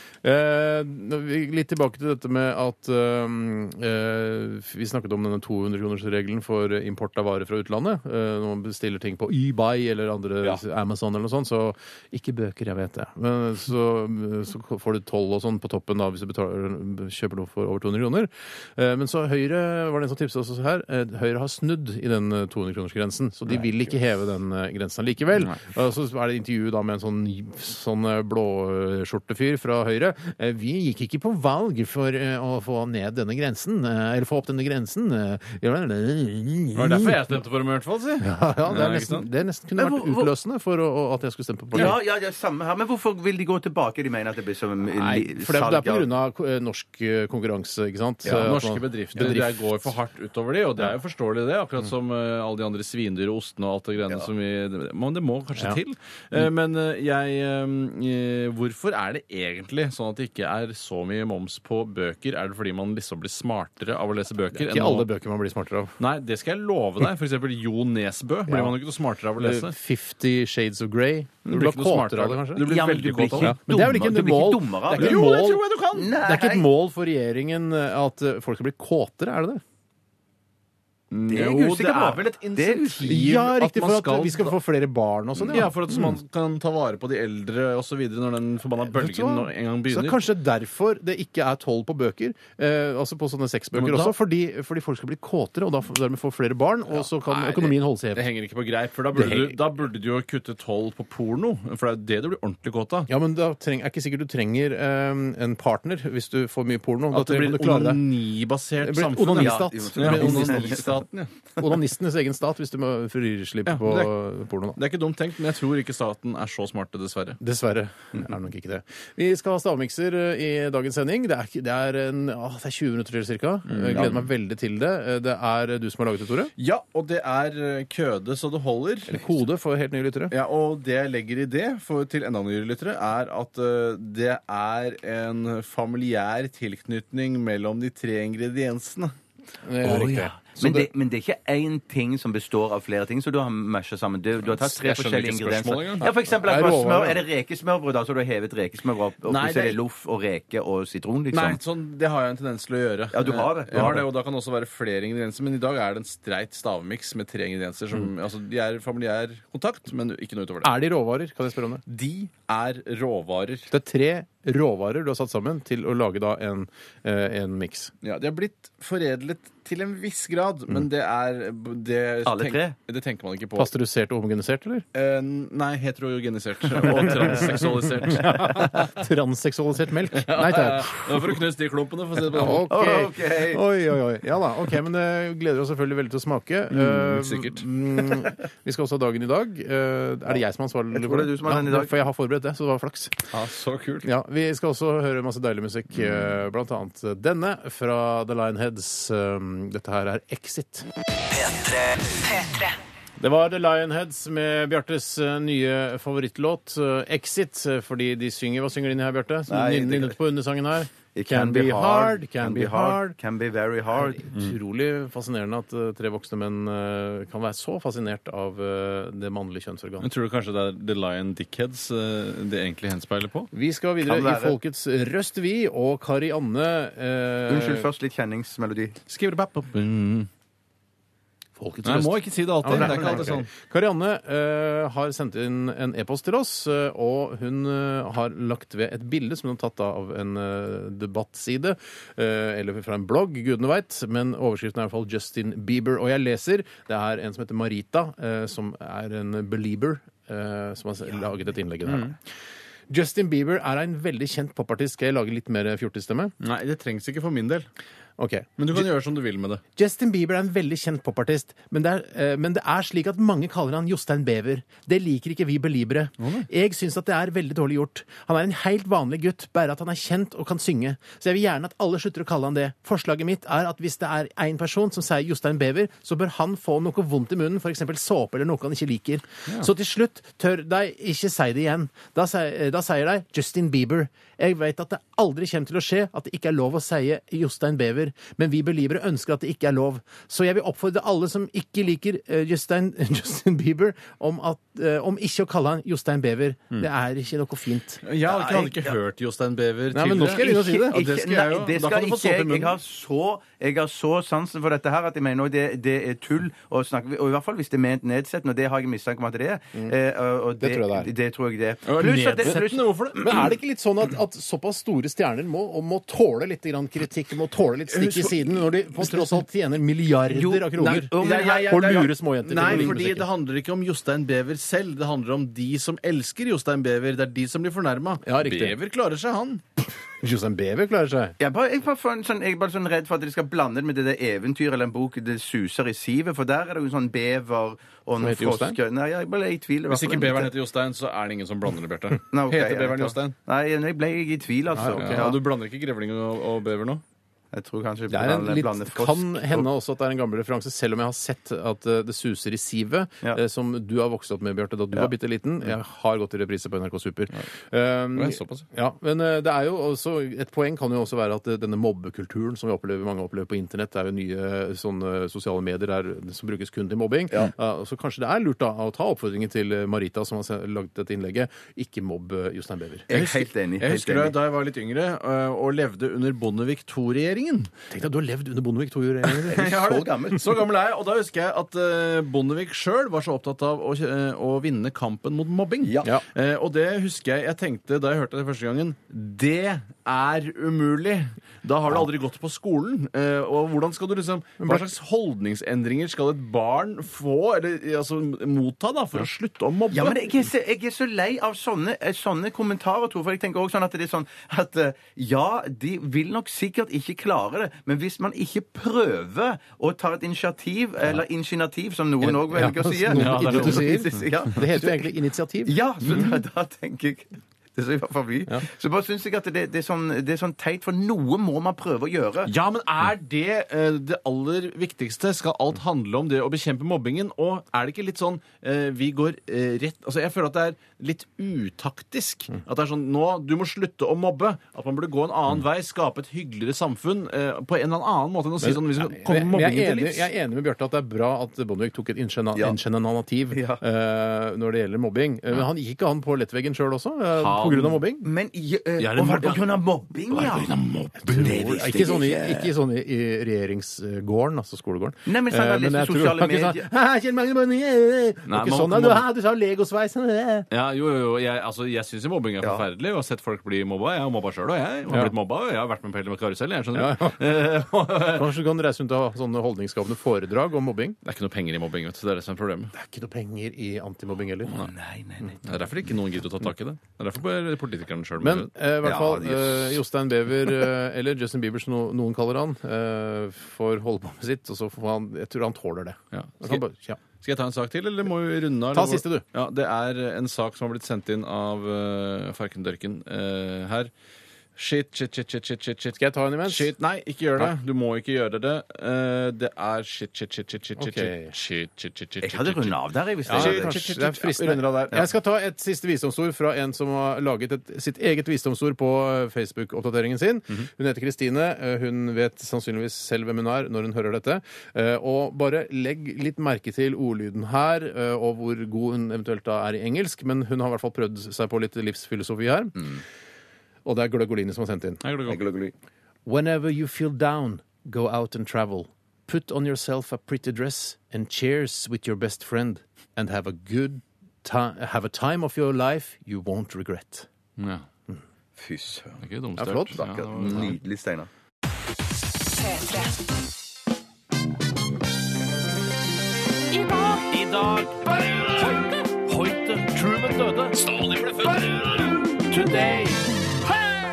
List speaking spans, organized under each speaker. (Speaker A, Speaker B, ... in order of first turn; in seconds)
Speaker A: 0.2-37.1, 38.2-41.9, 44.9-49.9, 64.5-65.9, 68.5-68.8, 69.4-72.6, 73.4-79.6, 83.0-86.2, 88.9-98.2, 99.1-99.5, 103.1-108.0, 108.8-110.9, 111.6-114.8, 117.4-126.5, 129.1-130.3, 139.6-140.9, 146.3-147.2, 160.6-161.8, 163.7-167.9, 173.6-174.8, 177.1-181.3, 182.3-193.2, 194.0-200.8, 203.2-213.2, 213.9-220.1, 223.5-227.9, 231.6-252.2, 252.9-256.3, 258.2-258.9, 259.8-298.0, 299.9-301.0, 310.6-311.1, 313.2-323.3, 328.2-328.8, 330.2-331.4, 338.2-338.8, 344.8-345.3, 348.1-373.1, 377.9-379.8, 394.6-394.9, 412.2-416.2, 438.6-448.3, 451.2-460.7, 466.9-467.6, 468.1-471.2, 472.9-474.7, 478.4-487.2, 488.9-489.4, 496.2-496.9, 501.0-501.5, 503.4-523.2, 524.0-525.2, 526.5-537.5, 539.8-540.2
Speaker B: 36.8-39.3, 48.2-65.1, 66.0-69.7, 71.5-73.5, 74.9-76.1, 81.1-84.5, 85.4-90.2, 93.7-94.1, 96.9-103.1, 107.1-111.3, 113.7-114.1, 114.7-117.4, 123.7-124.2, 126.6-129.2, 130.3-139.1, 144.4-146.1, 149.2-149.8, 151.3-160.7, 161.9-163.7, 168.0-173.7, 174.9-178.9, 180.1-182.7, 186.7-187.6, 193.3-194.1, 220.0-223.5, 229.1-230.3, 231.8-233.5, 251.8-252.1, 256.4-257.6, 258.6-259.6, 266.2-266.5, 298.0-302.8, 311.9-313.4, 317.9-319.4, 320.8-329.6, 339.9-343.4, 344.9-347.0, 358.1-358.6, 373.1-377.7, 379.2-400.4, 413.1-414.2, 422.4-440.3, 447.4-448.0, 449.0-449.7, 450.3-452.2, 458.5-459.2, 460.7-468.5, 471.2-472.9, 475.6-478.7, 486.3-486.8, 487.4-494.1, 494.8-505.2, 525.2-525.6, 537.8-538.1, 539.4-541.0, 547.4-554.0
Speaker C: 39.8-40.3, 41.7-46.1, 72.6-75.2, 75.9-76.7, 81.3-83.2, 109.4-110.9, 123.9-124.2, 139.8-151.6, 153.1-154.1, 172.2-172.7, 182.7-183.6, 190.9-191.9, 209.5-210.2, 211.1-214.2, 224.0-224.6, 227.5-229.0, 232.7-233.2, 298.2-299.0, 300.5-313.4, 320.3-323.0, 331.4-340.5, 342.3-345.4, 347.5-349.7, 373.1-374.4, 379.5-380.6, 385.8-386.1, 399.9-415.1, 415.6-422.5, 443.5-443.8, 448.2-450.7, 451.4-452.7, 455.2-456.9, 462.6-462.9, 474.7-475.6, 479.0-480.0, 502.4-504.0, 525.5-525.9, 538.8-539.4, 540.1-541.5
Speaker D: 201.3-202.8, 542.8-543.3